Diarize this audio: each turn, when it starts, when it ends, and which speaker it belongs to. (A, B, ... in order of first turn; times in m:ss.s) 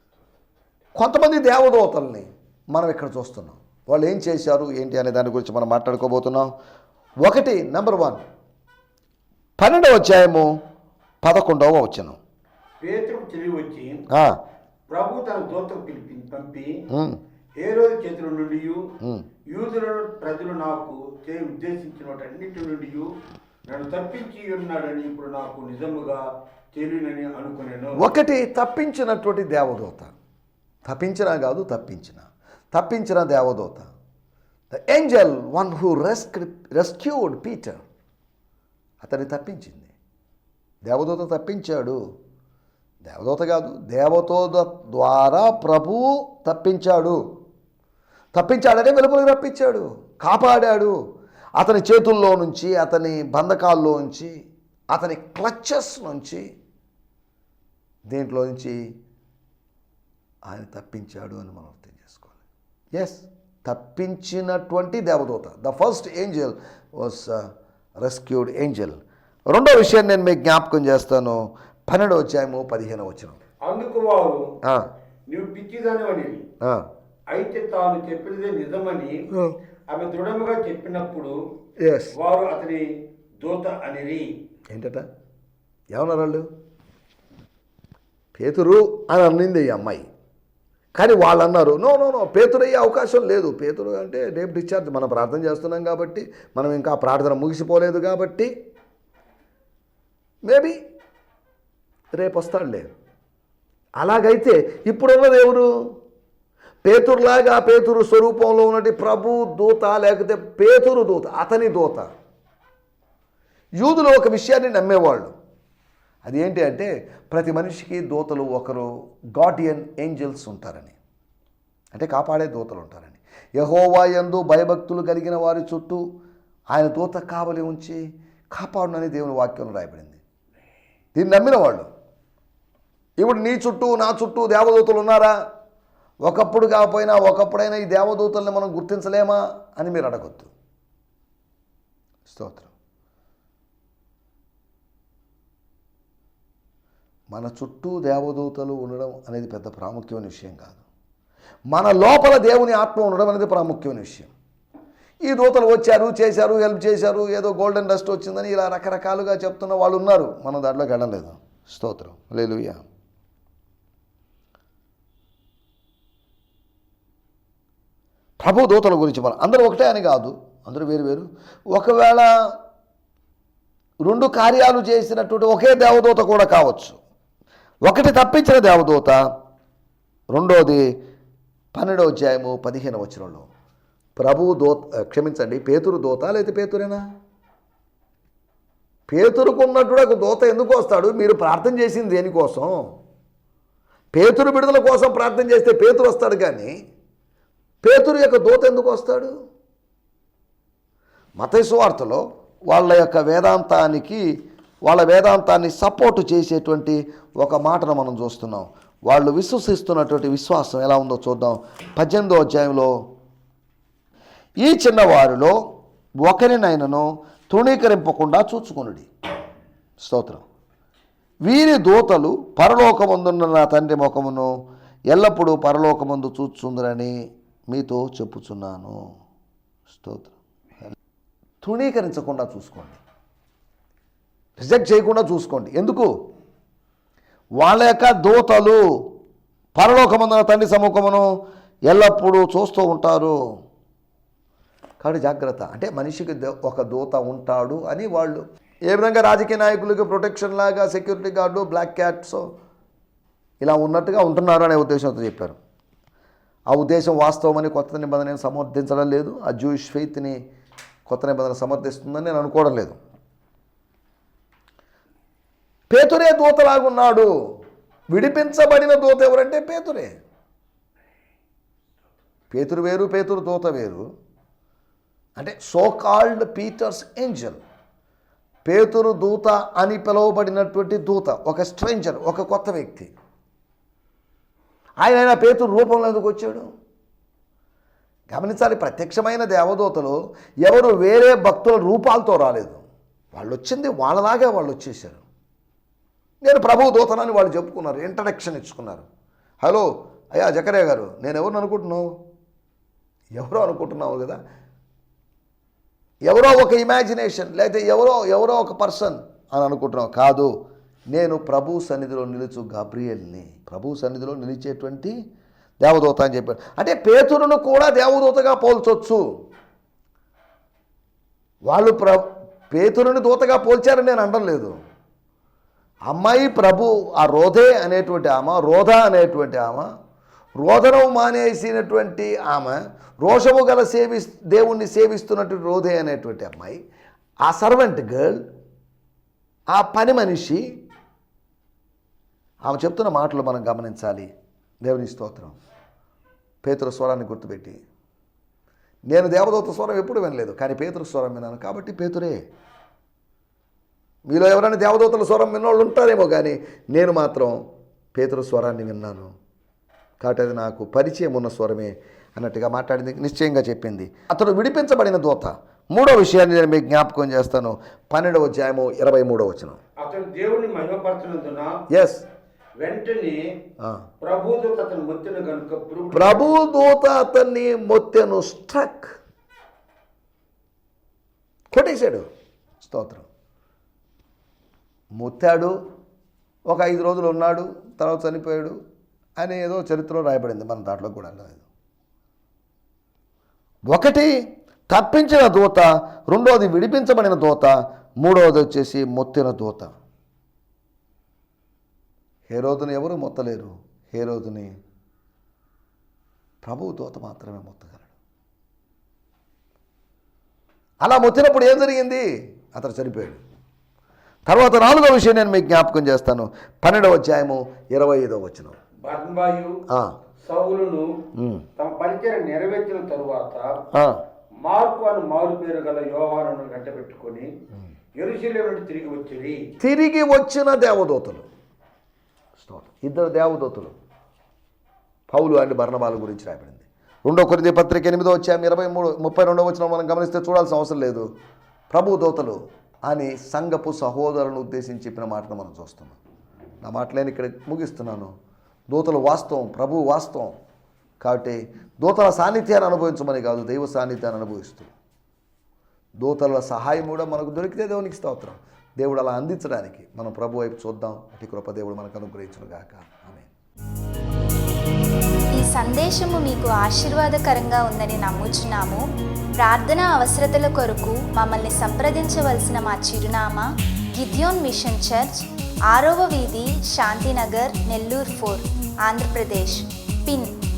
0:01.0-0:06.5 A
0:07.2-0:08.2 A
0:09.6-0:10.5 A
0:11.2-0:12.2 A
0:12.8-0:14.0 B
0:14.1-0:14.4 A
0:14.9-0:16.8 B
0:16.9-0:17.2 A
0:17.6-0:18.9 B
0:19.5-0:23.1 B
0:23.7-0:28.0 B
0:28.0-0:30.1 A
0:30.8-0:33.9 A
0:34.7-0:37.8 A
0:39.0-0:39.9 A
0:40.8-0:42.0 A
0:43.0-0:47.2 A
0:48.3-0:51.0 A
0:51.6-0:54.3 A
0:54.9-0:56.4 A
0:58.1-0:58.8 A
1:00.4-1:02.4 A
1:02.9-1:13.4 A
1:13.6-1:14.5 B
1:15.3-1:16.4 B
1:16.6-1:16.9 A
1:17.3-1:19.2 B
1:19.9-1:21.4 B
1:21.8-1:22.1 A
1:22.1-1:22.9 B
1:23.4-1:24.3 B
1:24.7-1:25.1 A
1:25.9-1:26.5 A
1:28.3-1:30.1 A
1:31.0-1:38.5 A
1:40.4-1:40.8 A
1:42.1-1:42.9 A
1:44.0-1:45.7 A
1:46.8-1:52.1 A
1:53.8-1:55.3 A
1:56.2-2:01.0 A
2:01.9-2:06.0 A
2:06.7-2:08.0 A
2:08.5-2:10.2 A
2:11.1-2:11.9 A
2:13.2-2:15.4 A
2:16.2-2:20.5 A
2:22.3-2:22.7 A
2:27.3-2:30.8 A
2:31.7-2:34.3 A
2:35.2-2:42.8 A
2:48.4-2:52.3 A
2:54.0-2:57.0 A
2:57.8-2:59.2 A
3:00.3-3:00.8 A
3:01.7-3:03.5 A
3:04.2-3:07.0 A
3:09.1-3:12.8 A
3:14.1-3:16.7 A
3:17.8-3:19.3 A
3:21.4-3:24.2 A
3:24.8-3:32.9 A
3:34.6-3:35.5 A
3:36.2-3:39.1 A
3:40.0-3:40.4 A
3:41.4-3:44.5 A
3:45.1-3:47.2 A
3:47.7-3:49.0 A
3:49.9-3:50.3 A
3:51.6-3:53.0 A
3:54.6-3:56.1 A
3:57.6-3:58.8 A
3:59.8-4:01.3 A
4:01.9-4:03.4 A
4:05.0-4:12.4 A
4:13.6-4:15.6 A
4:16.7-4:20.4 A
4:21.1-4:23.0 A
4:25.9-4:27.3 A
4:28.1-4:30.2 A
4:32.5-4:34.1 A
4:35.4-4:37.6 A
4:38.6-4:43.1 A
4:45.0-4:46.7 A
4:48.3-4:55.2 A
4:56.4-4:59.1 A
4:59.6-5:02.1 A
5:03.4-5:04.4 A
5:06.2-5:10.5 A
5:11.1-5:15.1 A
5:15.8-5:19.2 A
5:21.6-5:24.8 A
5:26.1-5:29.9 A
5:30.6-5:36.8 A
5:37.4-5:38.5 A
5:39.7-5:40.6 A
5:42.6-5:44.3 A
5:44.8-5:45.6 A
5:46.6-5:47.8 A
5:49.1-5:52.4 A
5:54.3-5:57.6 A
5:58.1-5:59.3 A
6:00.2-6:09.8 A
6:10.0-6:11.8 B
6:11.9-6:12.2 A
6:12.8-6:13.4 B
6:13.8-6:14.0 A
6:14.2-6:16.5 B
6:16.1-6:19.2 A
6:21.7-6:22.3 A
6:22.8-6:23.2 A
6:25.2-6:25.8 A
6:26.7-6:28.8 A
6:29.4-6:31.6 A
6:33.9-6:34.3 A
6:34.9-6:39.9 A
6:42.5-6:44.7 A
6:46.6-6:48.1 A
6:51.0-6:53.4 A
6:54.5-6:58.8 A
6:59.0-6:59.8 B
6:59.9-7:00.1 A
7:00.4-7:01.1 B
7:01.3-7:01.6 A
7:01.8-7:03.8 B
7:03.9-7:04.2 A
7:04.6-7:07.5 B
7:08.2-7:09.6 B
7:09.8-7:11.4 A
7:12.6-7:14.0 A
7:15.3-7:21.3 A
7:21.9-7:26.2 A
7:26.8-7:28.3 A
7:28.9-7:30.6 A
7:31.2-7:34.9 A
7:36.2-7:43.5 A
7:45.5-7:49.0 C
7:49.6-8:00.5 C